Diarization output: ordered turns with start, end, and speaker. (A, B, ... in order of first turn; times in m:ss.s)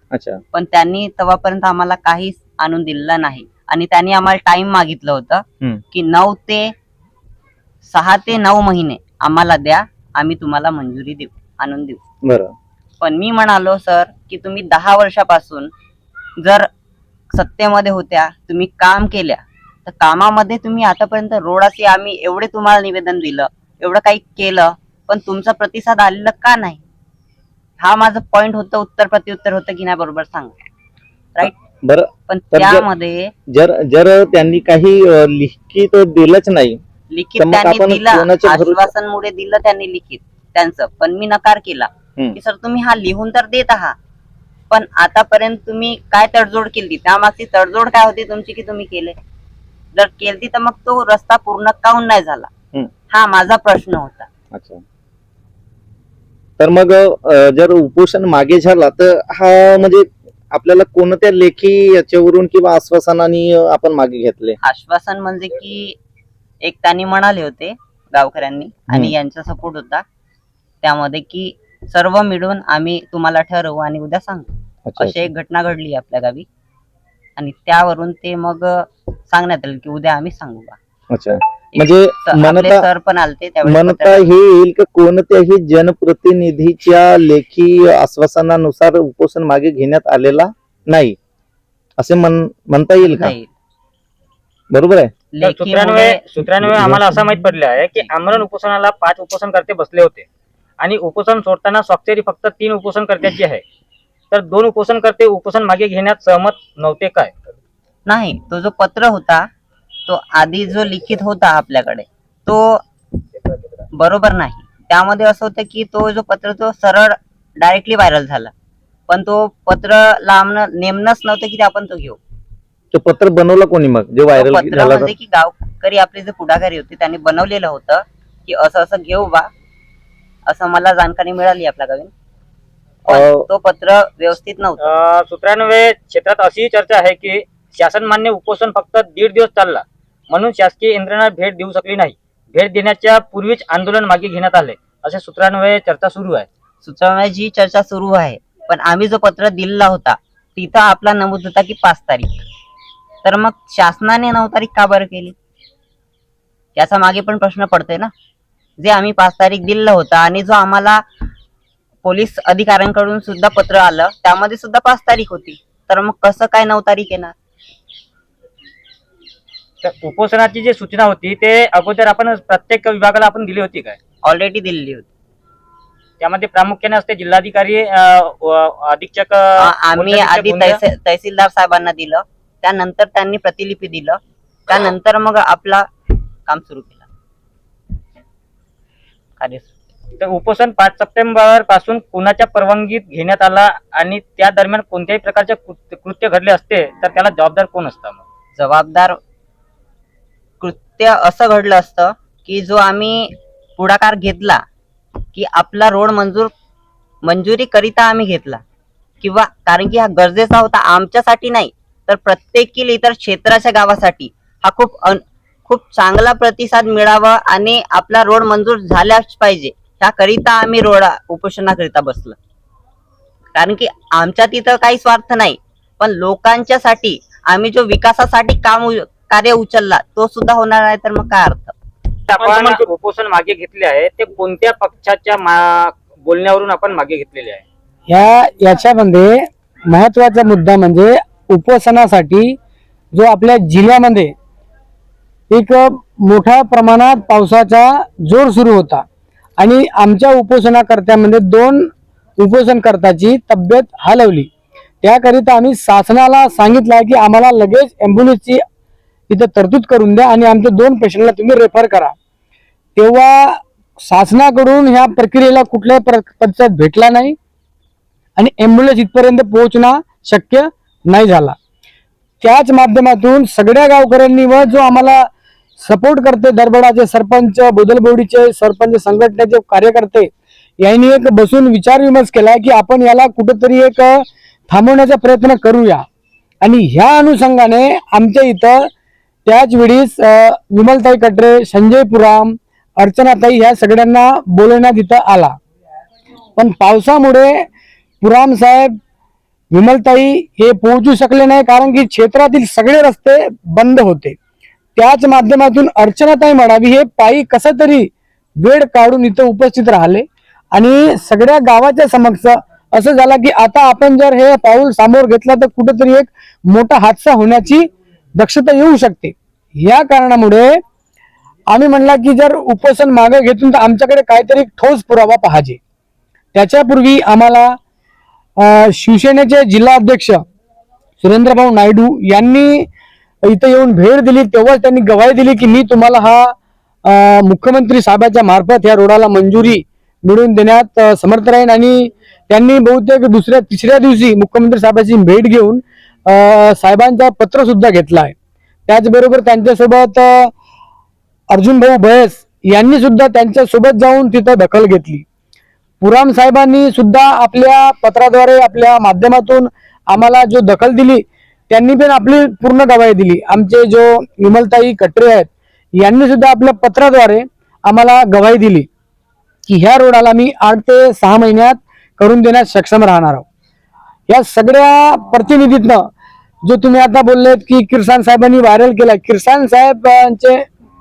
0:00.1-0:00.4 A
0:00.5-0:06.7 B
0:07.9-0:12.0 B
0:12.3-0:12.5 A
0:13.0-0:15.7 B
0:16.4-0:16.7 B
0:17.3-0:26.8 B
0:27.8-0:30.6 B
0:31.4-0:32.8 A
0:32.3-0:33.3 B
0:33.5-0:36.8 A
0:37.1-0:44.0 B
0:37.4-0:38.9 A
0:44.7-0:49.2 B
0:49.9-0:52.5 B
0:53.1-0:54.3 B
0:54.5-0:54.8 A
0:56.6-1:04.6 A
1:04.6-1:06.0 B
1:06.6-1:10.0 B
1:10.8-1:16.5 B
1:14.9-1:15.3 A
1:17.4-1:20.8 B
1:21.1-1:22.8 A
1:21.8-1:24.3 B
1:23.7-1:31.2 A
1:32.0-1:33.3 A
1:33.0-1:33.5 B
1:34.7-1:35.1 A
1:35.3-1:36.2 B
1:35.4-1:40.3 C
1:36.6-1:37.0 A
1:40.8-1:43.6 C
1:44.3-1:47.3 C
1:48.1-1:49.5 B
1:50.1-1:52.8 B
1:54.0-1:58.5 B
1:59.1-2:02.2 B
2:02.9-2:05.1 A
2:04.3-2:09.5 B
2:10.5-2:12.1 B
2:13.1-2:14.9 B
2:13.1-2:13.4 A
2:14.8-2:26.5 C
2:26.8-2:32.4 B
2:33.2-2:35.4 B
2:36.8-2:38.1 B
2:38.8-2:41.0 B
2:42.0-2:47.3 B
2:49.8-2:54.0 C
2:54.2-2:55.1 B
2:56.2-3:00.8 C
2:59.6-3:05.9 B
3:06.5-3:07.1 B
3:09.4-3:09.7 B
3:10.2-3:18.2 C
3:18.6-3:19.2 B
3:20.6-3:24.6 B
3:25.3-3:26.5 B
3:27.2-3:28.6 B
3:29.2-3:42.4 B
3:43.6-3:51.7 B
3:52.3-3:57.6 C
3:58.1-4:02.6 D
4:03.1-4:04.3 D
4:05.5-4:09.0 D
4:09.6-4:14.5 D
4:15.0-4:18.6 D
4:19.3-4:22.2 D
4:23.0-4:27.4 D
4:28.4-4:31.6 D
4:32.4-4:35.3 D
4:35.8-4:46.0 D
4:46.6-4:48.9 D
4:49.5-4:55.6 D
4:56.6-4:57.7 D
4:58.2-4:59.0 D
4:59.7-5:04.4 D
5:05.0-5:20.8 D
5:21.7-5:25.8 D
5:26.5-5:27.8 D
5:28.6-5:30.4 D
5:31.2-5:32.9 D
5:33.4-5:48.4 D
5:48.9-5:50.5 D
5:51.5-5:55.2 D
5:56.0-6:08.9 D
6:09.7-6:13.4 D
6:14.3-6:16.1 D
6:16.6-6:20.6 D